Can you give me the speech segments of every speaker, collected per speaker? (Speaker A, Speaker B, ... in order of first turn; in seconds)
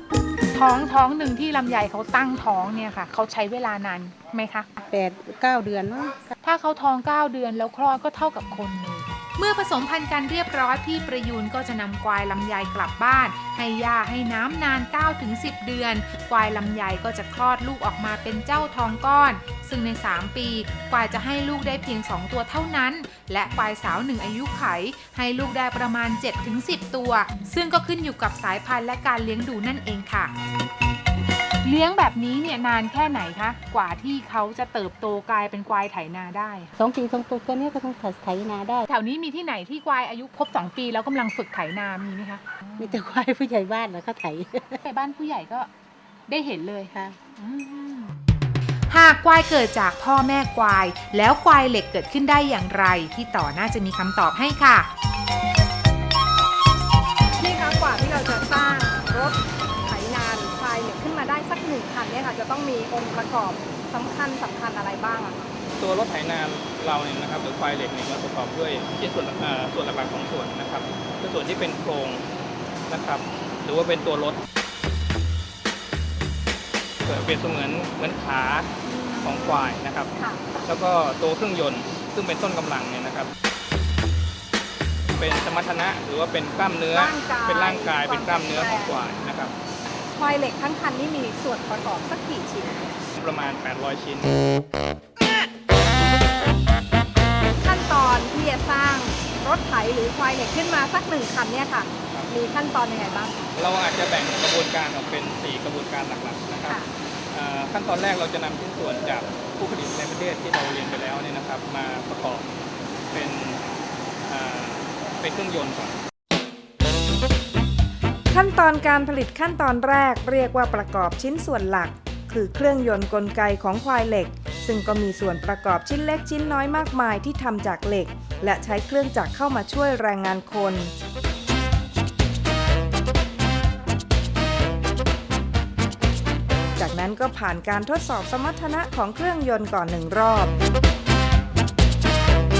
Speaker A: 0.5-4.7, 6.4-30.3, 31.6-36.7, 38.9-43.0, 44.8-45.7, 46.3-48.1, 48.9-54.9
Speaker B: 4.8-6.3, 36.8-38.9, 42.8-44.8, 46.9-47.2
Speaker C: 57.4-65.5, 78.8-80.4, 86.9-89.1, 90.2-92.9, 97.6-103.4
Speaker D: 65.8-72.2, 72.9-74.4, 77.0-78.7, 79.2-80.1, 80.6-83.3, 85.2-89.5, 93.1-94.3, 103.5-106.8, 107.3-112.5, 113.1-113.6, 114.2-116.0
Speaker E: 118.3-130.9, 136.8-140.5